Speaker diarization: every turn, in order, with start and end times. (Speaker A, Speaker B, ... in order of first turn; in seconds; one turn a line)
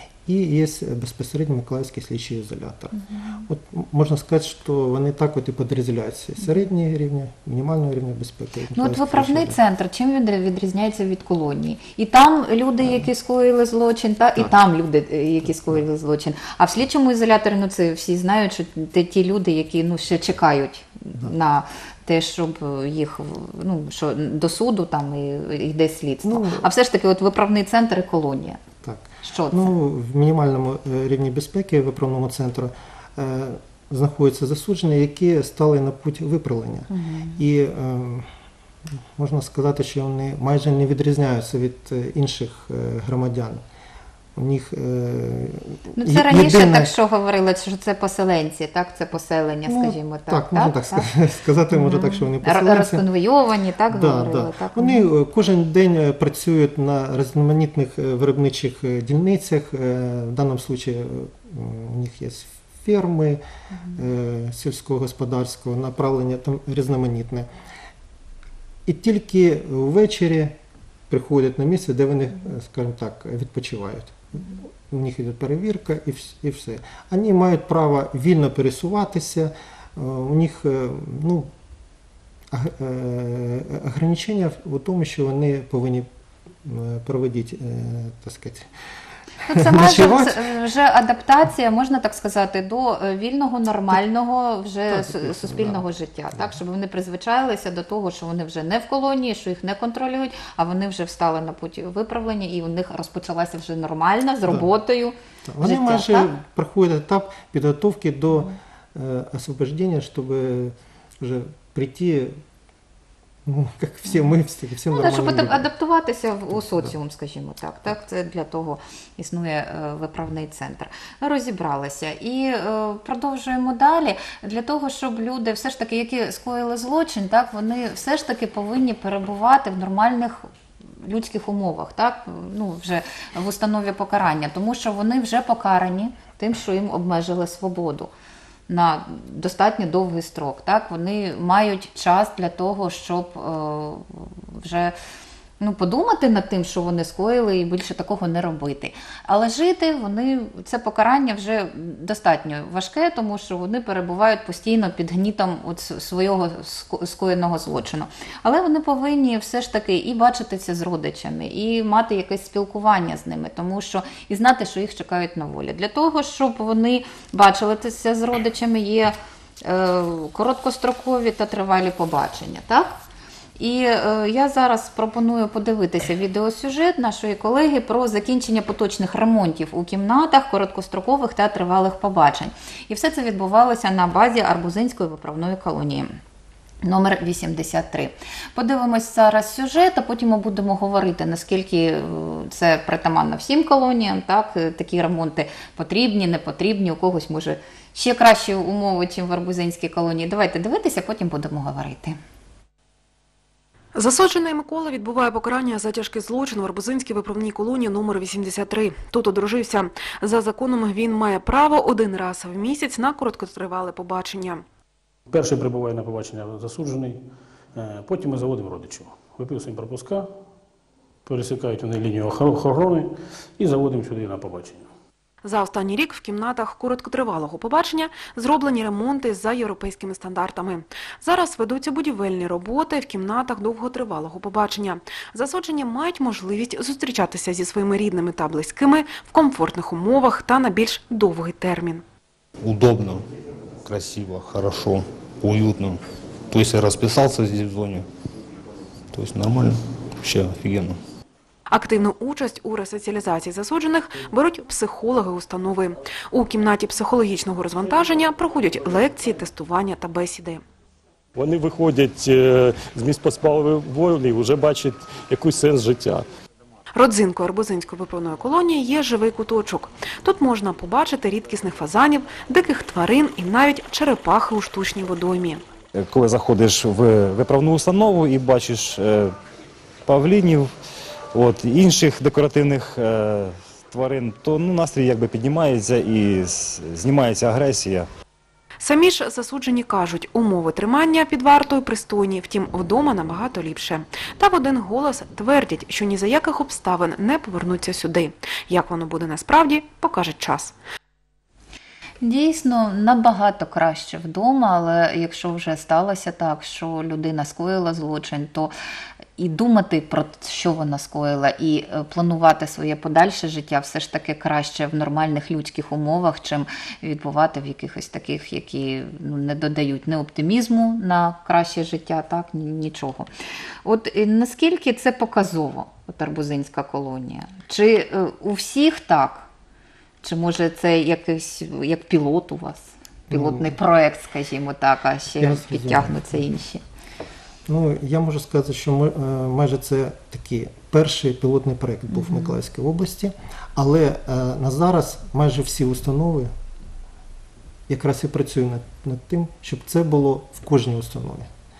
Speaker A: 0.2-9.6
Speaker B: 8.7-28.6
Speaker A: 15.4-15.8
Speaker A: 26.2-26.7
Speaker A: 28.8-38.3
Speaker B: 29.2-29.8
Speaker B: 36.9-37.4
Speaker A: 38.9-43.6
Speaker A: 44.4-46.9
Speaker B: 46.0-51.1
Speaker A: 49.6-53.0
Speaker B: 51.7-55.1
Speaker A: 53.9-63.4
Speaker A: 63.9-67.5
Speaker A: 68.8-70.6
Speaker A: 71.1-81.5
Speaker A: 82.5-86.1
Speaker A: 86.6-88.7
Speaker B: 89.4-106.3
Speaker A: 89.5-90.4
Speaker A: 94.9-96.6
Speaker A: 105.5-112.4
Speaker A: 113.5-115.7
Speaker B: 114.9-130.4
Speaker A: 116.5-116.9
Speaker B: 131.0-138.1
Speaker B: 138.7-144.9
Speaker B: 145.6-172.9
Speaker B: 173.6-186.1
Speaker B: 186.8-202.2
Speaker C: 203.9-214.6
Speaker D: 215.3-217.2
Speaker D: 217.7-220.3
Speaker D: 221.2-224.9
Speaker C: 225.4-242.0
Speaker E: 242.6-243.2
Speaker E: 243.8-248.1
Speaker E: 249.1-251.0
Speaker C: 251.7-260.6
Speaker F: 261.3-266.2
Speaker C: 266.9-275.6
Speaker G: 275.9-279.3
Speaker G: 280.1-280.7
Speaker G: 281.3-288.1
Speaker C: 288.8-300.7
Speaker B: 302.2-308.7
Speaker B: 309.4-323.3
Speaker B: 323.8-329.5
Speaker B: 330.2-336.8
Speaker A: 333.3-333.8
Speaker A: 335.4-336.4
Speaker A: 337.6-346.5
Speaker B: 342.1-342.6
Speaker A: 347.9-351.5